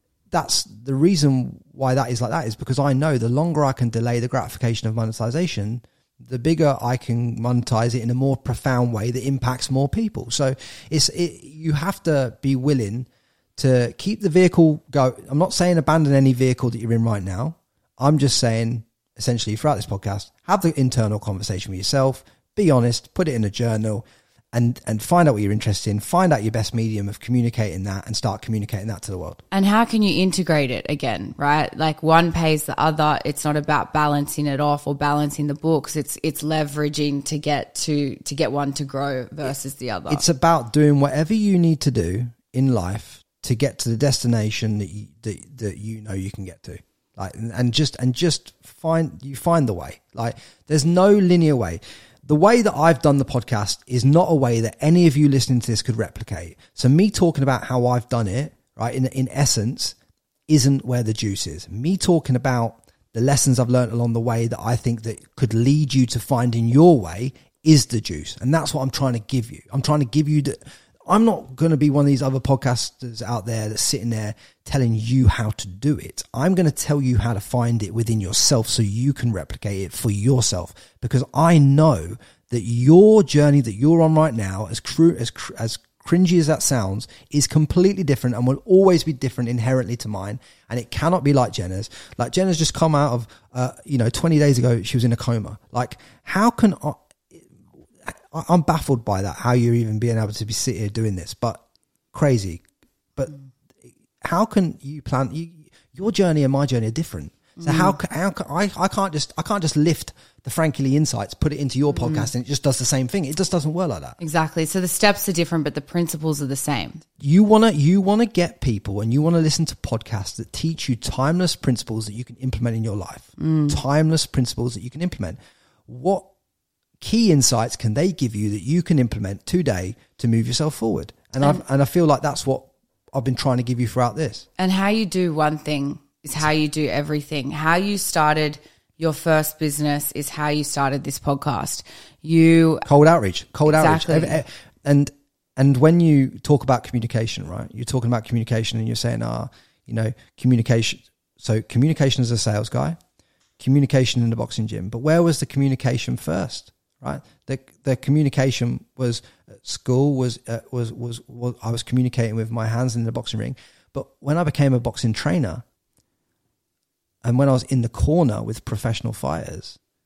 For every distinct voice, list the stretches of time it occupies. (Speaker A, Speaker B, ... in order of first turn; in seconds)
Speaker A: 0.3-29.4, 40.1-60.0, 60.5-97.5, 98.1-101.6, 102.1-102.6, 104.2-114.2, 117.2-126.3, 127.0-134.4, 142.8-153.0, 153.6-165.6, 167.2-169.8
Speaker B: 29.5-40.2, 107.6-107.9, 111.9-112.3, 114.2-117.0, 123.4-123.8, 134.6-142.8, 143.7-144.4